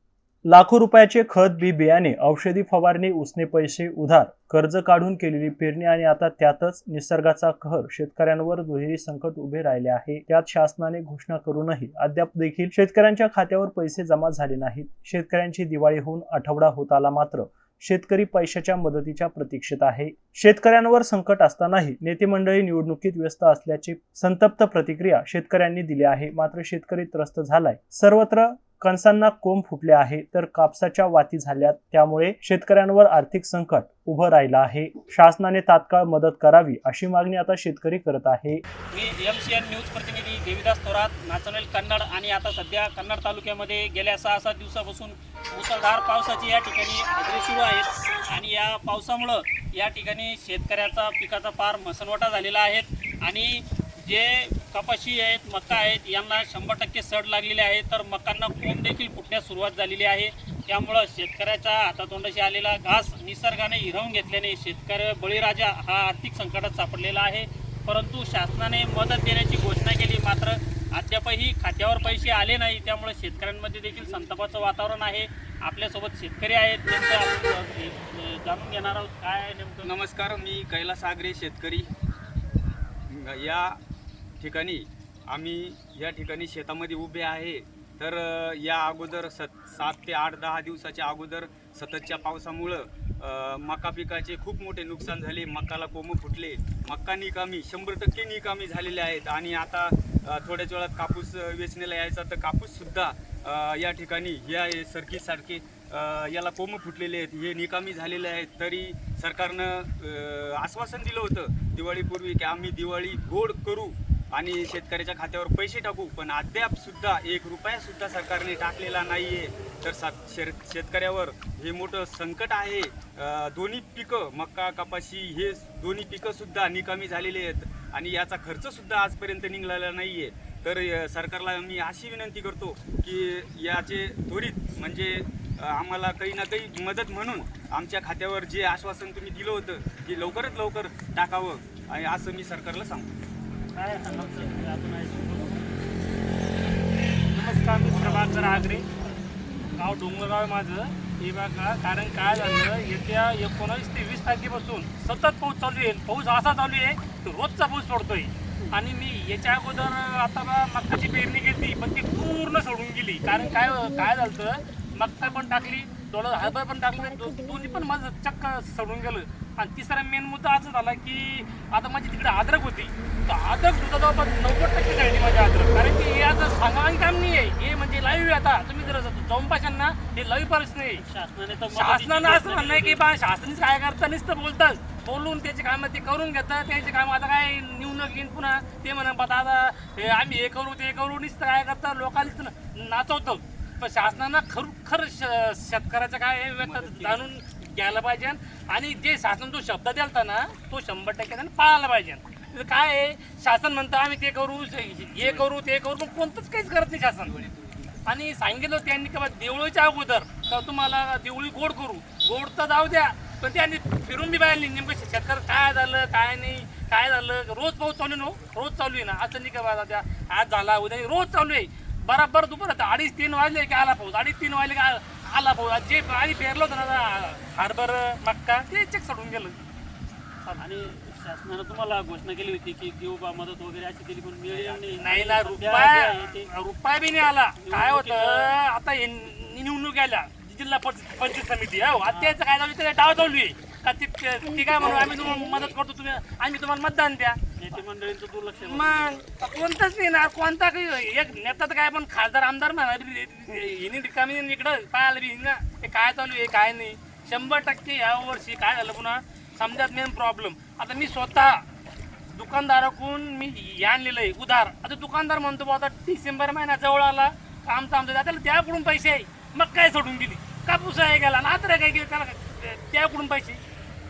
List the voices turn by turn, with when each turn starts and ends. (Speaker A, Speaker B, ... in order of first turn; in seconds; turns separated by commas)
Speaker A: 0.5-38.6, Speaker B: 38.9-79.9, Speaker C: 79.8-81.9, Speaker C: 83.1-83.8, Speaker C: 84.4-143.1, Speaker B: 143.8-145.8, Speaker D: 147.3-148.9, Speaker B: 147.9-149.2, Speaker D: 149.7-181.0, Speaker B: 181.0-183.0, Speaker D: 181.7-207.3, Speaker C: 196.7-197.2, Speaker C: 205.2-205.5, Speaker C: 207.2-208.0, Speaker D: 208.1-229.6, Speaker B: 230.6-236.5, Speaker C: 234.5-235.4, Speaker D: 235.0-247.8, Speaker B: 237.6-238.5, Speaker B: 242.1-242.3, Speaker B: 244.9-245.4, Speaker B: 247.6-249.2, Speaker D: 248.5-261.6, Speaker D: 262.3-273.6